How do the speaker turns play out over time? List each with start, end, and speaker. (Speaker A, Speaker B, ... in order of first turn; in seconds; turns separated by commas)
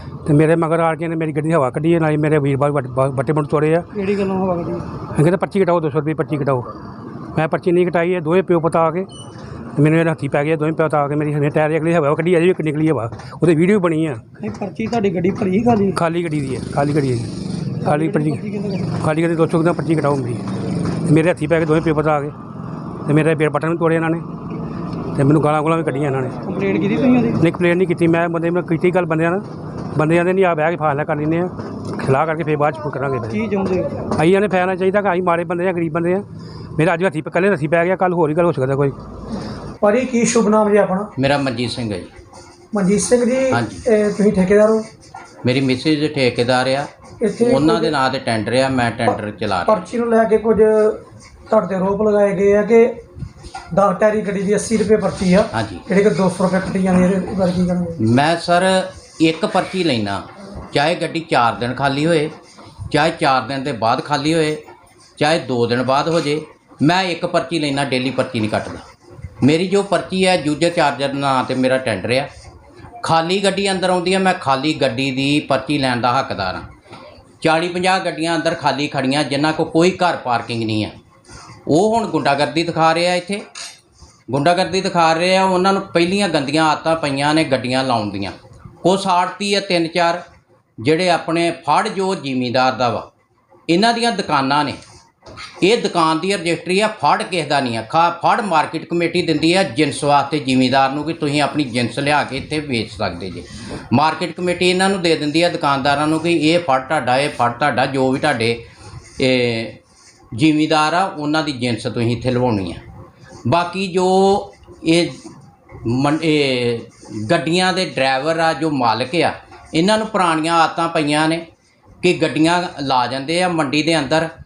Speaker A: 0.3-3.9, Speaker B: 4.0-4.9, Speaker A: 5.2-6.7, Speaker A: 7.3-9.1, Speaker A: 9.8-14.2, Speaker B: 14.4-15.9, Speaker A: 15.9-17.3, Speaker B: 17.8-18.9, Speaker A: 17.8-18.4, Speaker A: 19.0-20.4, Speaker A: 21.1-22.3, Speaker A: 23.1-24.2, Speaker A: 25.1-26.4, Speaker B: 26.4-27.4, Speaker A: 27.4-33.4, Speaker B: 33.3-34.0, Speaker A: 34.1-36.2, Speaker A: 36.8-39.0, Speaker B: 39.8-41.1, Speaker C: 41.2-42.1, Speaker B: 42.7-44.9, Speaker C: 43.5-43.8, Speaker C: 45.5-46.9, Speaker B: 47.2-47.9, Speaker C: 47.4-49.9, Speaker B: 49.1-53.0, Speaker B: 53.7-58.0, Speaker C: 55.5-55.8, Speaker C: 58.0-62.3, Speaker C: 62.9-64.6, Speaker C: 65.2-68.9, Speaker C: 69.4-72.3, Speaker C: 73.0-76.7, Speaker C: 77.4-80.9, Speaker C: 81.7-83.4, Speaker C: 84.3-90.2, Speaker C: 90.8-93.1, Speaker C: 93.7-94.8, Speaker C: 95.6-108.6, Speaker C: 109.2-109.8, Speaker C: 110.4-112.8, Speaker C: 113.5-115.2, Speaker C: 115.8-121.4, Speaker C: 122.0-124.3